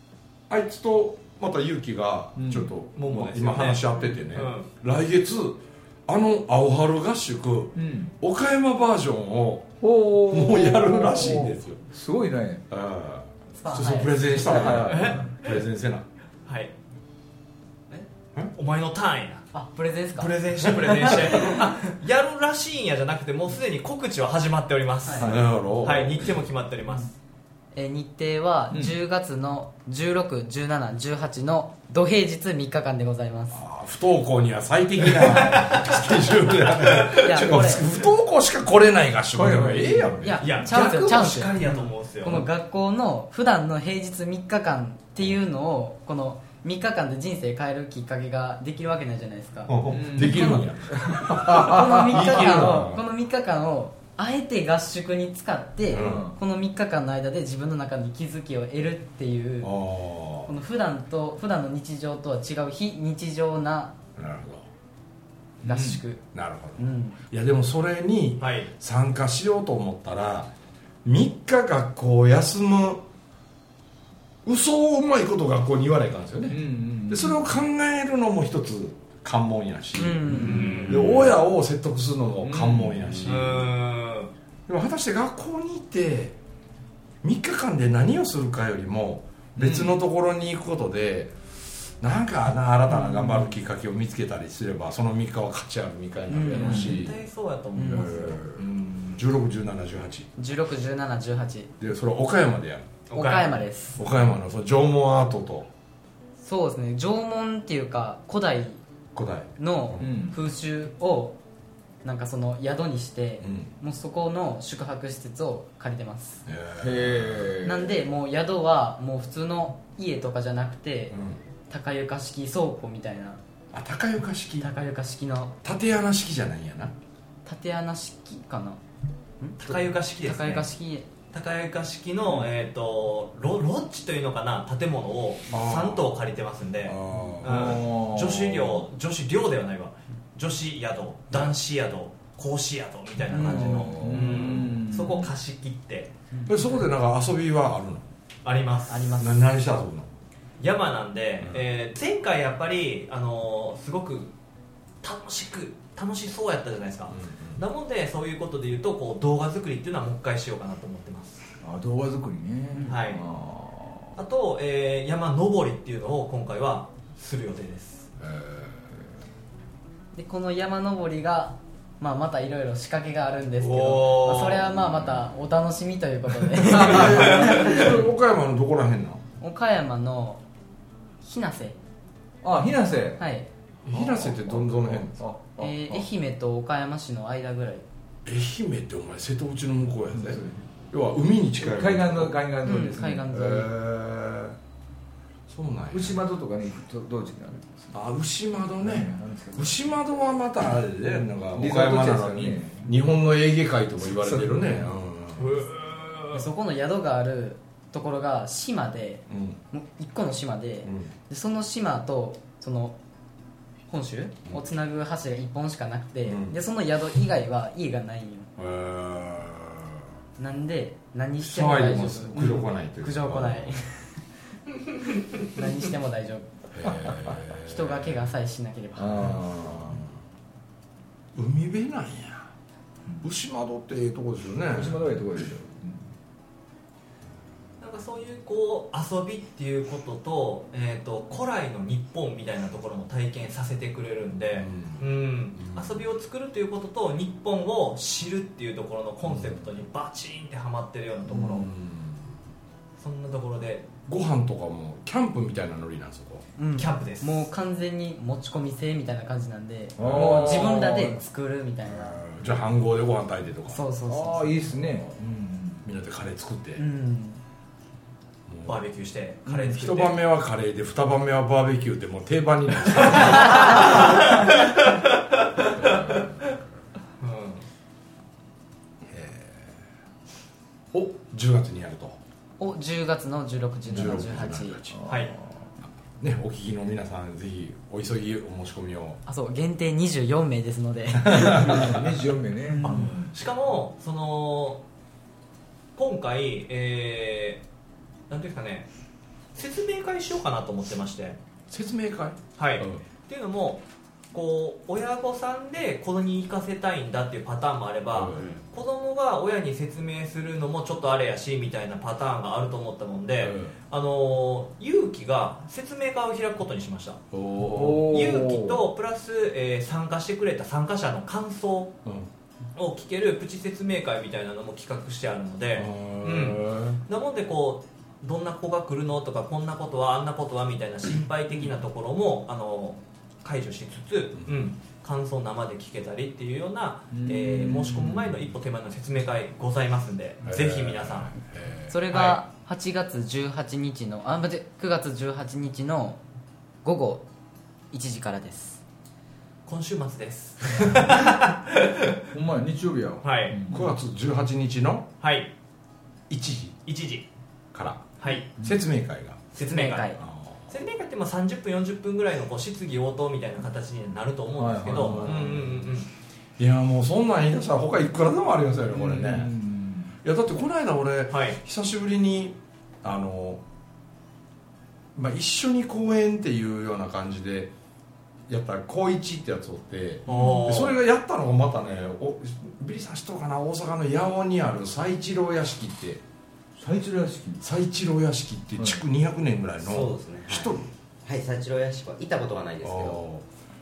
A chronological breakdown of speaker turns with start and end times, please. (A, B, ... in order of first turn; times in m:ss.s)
0:00.5-0:09.7 A
0:02.4-0:02.7 B
0:03.0-0:04.7 C
0:07.8-0:08.1 B
0:09.8-0:12.6 B
0:10.3-0:11.8 A
0:12.7-0:16.1 A
0:13.6-0:14.6 D
0:14.4-0:15.3 B
0:14.9-0:15.6 C
0:16.5-0:16.7 C
0:18.5-0:19.5 C
0:19.5-0:20.4 D
0:20.1-0:27.2 C
0:21.4-0:21.7 D
0:25.1-0:25.5 B
0:25.2-0:26.3 A
0:27.8-0:33.6 D
0:28.7-0:29.0 B
0:33.5-0:40.4 A
0:35.2-0:37.5 C
0:37.1-0:37.9 D
0:39.4-0:40.4 B
0:40.2-0:50.6 D
0:40.4-0:42.5 C
0:49.7-0:53.0 A
0:49.9-0:52.3 B
0:51.3-0:59.8 D
0:55.9-0:56.3 A
0:56.0-0:56.4 B
0:59.6-1:00.5 A
1:00.4-1:03.9 D
1:04.2-1:04.7 A
1:05.6-1:06.2 D
1:05.6-1:06.0 B
1:06.3-1:10.5 A
1:06.8-1:07.2 D
1:08.4-1:08.7 C
1:11.0-1:13.0 A
1:14.4-1:23.7 A
1:16.5-1:17.4 B
1:20.0-1:21.0 D
1:20.3-1:21.1 B
1:20.4-1:21.1 C
1:22.4-1:23.2 B
1:23.2-1:24.3 C
1:24.7-1:26.4 A
1:27.2-1:31.4 A
1:29.6-1:29.9 B
1:32.0-1:37.2 A
1:33.0-1:33.4 D
1:36.3-1:37.0 D
1:36.5-1:38.4 C
1:37.8-1:38.4 D
1:37.8-1:40.3 A
1:38.1-1:38.4 B
1:40.4-1:41.7 D
1:41.8-1:43.0 A
1:43.1-1:43.7 C
1:43.1-1:44.0 D
1:44.0-1:45.7 A
1:46.4-1:48.8 D
1:49.2-1:50.2 A
1:49.6-1:51.4 D
1:50.0-1:50.4 B
1:52.0-1:56.4 D
1:53.4-1:53.7 A
1:56.5-1:57.6 A
1:56.8-1:58.0 B
1:57.6-2:01.2 D
2:01.1-2:01.4 A
2:01.7-2:03.4 D
2:03.7-2:04.7 A
2:04.6-2:05.6 D
2:05.6-2:06.9 A
2:07.5-2:08.8 D
2:09.4-2:11.1 D
2:09.6-2:10.7 C
2:11.3-2:26.1 C
2:15.5-2:16.1 A
2:16.8-2:17.8 A
2:17.3-2:18.7 B
2:23.3-2:25.3 B
2:23.4-2:24.8 A
2:26.3-2:26.6 D
2:26.5-2:28.1 A
2:28.4-2:29.2 C
2:28.9-2:29.7 D
2:29.2-2:30.1 A
2:30.6-2:34.3 C
2:35.0-2:41.5 C
2:37.1-2:37.6 A
2:41.6-2:44.1 B
2:42.9-2:43.2 C
2:44.2-2:48.1 C
2:48.2-2:48.7 A
2:50.1-2:58.0 D
2:53.6-2:54.7 C
2:56.7-2:59.2 A
2:56.8-2:57.6 B
2:57.3-2:57.7 C
2:59.4-3:00.4 D
3:01.2-3:01.8 D
3:02.4-3:03.2 B
3:03.2-3:03.5 D
3:03.9-3:05.2 A
3:03.9-3:06.0 B
3:05.6-3:07.8 D
3:08.2-3:12.4 A
3:10.1-3:10.7 B
3:11.6-3:13.7 B
3:12.6-3:13.7 D
3:13.3-3:14.6 A
3:15.5-3:16.2 A
3:15.9-3:18.0 B
3:17.9-3:25.6 A
3:18.8-3:19.8 B
3:21.2-3:22.9 B
3:24.1-3:24.9 B
3:25.4-3:26.4 C
3:26.3-3:33.0 D
3:29.3-3:29.6 A
3:30.8-3:31.1 A
3:33.9-3:38.5 D
3:36.3-3:36.6 A
3:38.6-3:40.0 A
3:40.4-3:44.1 D
3:41.4-3:43.8 A
3:45.5-3:49.5 D
3:46.8-3:48.2 A
3:49.0-3:50.0 B
3:49.6-3:50.1 A
3:51.4-3:52.5 A
3:53.2-3:55.1 A
3:54.7-3:56.1 B
3:57.8-4:11.7 C
4:04.6-4:06.1 A
4:09.2-4:09.7 A
4:11.3-4:12.3 A
4:13.0-4:13.9 C
4:14.1-4:16.4 A
4:16.6-4:22.2 D
4:16.8-4:17.5 C
4:20.0-4:21.2 B
4:20.0-4:20.8 A
4:22.0-4:23.8 A
4:23.7-4:24.8 D
4:24.1-4:25.8 B
4:25.8-4:26.8 A
4:26.8-4:27.4 D
4:28.5-4:28.8 A
4:28.7-4:30.2 C
4:29.5-4:34.0 A
4:33.0-4:36.6 C
4:35.8-4:36.6 A
4:37.2-4:37.6 C
4:39.1-4:39.8 A
4:40.9-4:42.2 A
4:42.6-4:44.8 D
4:43.9-4:45.0 A
4:44.9-4:45.6 B
4:45.1-4:45.3 C
4:46.2-4:49.2 A
4:49.3-4:51.9 D
4:51.3-4:52.1 A
4:51.4-4:53.3 B
4:52.7-4:53.2 D
4:52.8-4:54.8 C
4:56.0-4:57.6 C
4:58.3-4:58.9 C
4:59.6-5:01.4 C
5:01.7-5:03.0 A
5:02.6-5:17.2 C
5:08.1-5:08.5 A
5:13.4-5:13.8 A
5:17.3-5:18.3 A
5:17.7-5:18.8 B
5:18.1-5:22.0 C
5:22.8-5:41.4 C
5:25.8-5:27.0 A
5:34.4-5:34.7 A
5:37.1-5:38.4 B
5:40.4-5:42.0 A
5:41.9-5:46.2 D
5:42.1-5:42.4 C
5:46.8-5:47.2 D
5:47.9-5:48.8 D
5:49.7-5:52.2 C
5:52.3-5:53.9 B
5:53.2-5:53.6 C
5:53.7-5:55.1 A
5:55.2-5:55.5 C
5:56.3-5:56.8 A
5:56.9-5:57.3 C
5:57.7-5:59.4 A
5:58.2-5:58.5 C
5:59.5-6:06.1 C
5:59.6-6:00.2 D
6:00.2-6:00.7 A
6:04.6-6:05.4 B
6:04.9-6:06.0 A
6:06.6-6:09.5 A
6:08.9-6:10.1 B
6:10.2-6:13.6 A
6:11.3-6:11.6 C
6:15.2-6:17.7 A
6:18.5-6:26.2 A
6:20.3-6:21.0 C
6:20.3-6:20.6 B
6:26.8-6:27.6 B
6:27.6-6:30.9 A
6:29.8-6:33.2 E
6:32.8-6:33.5 A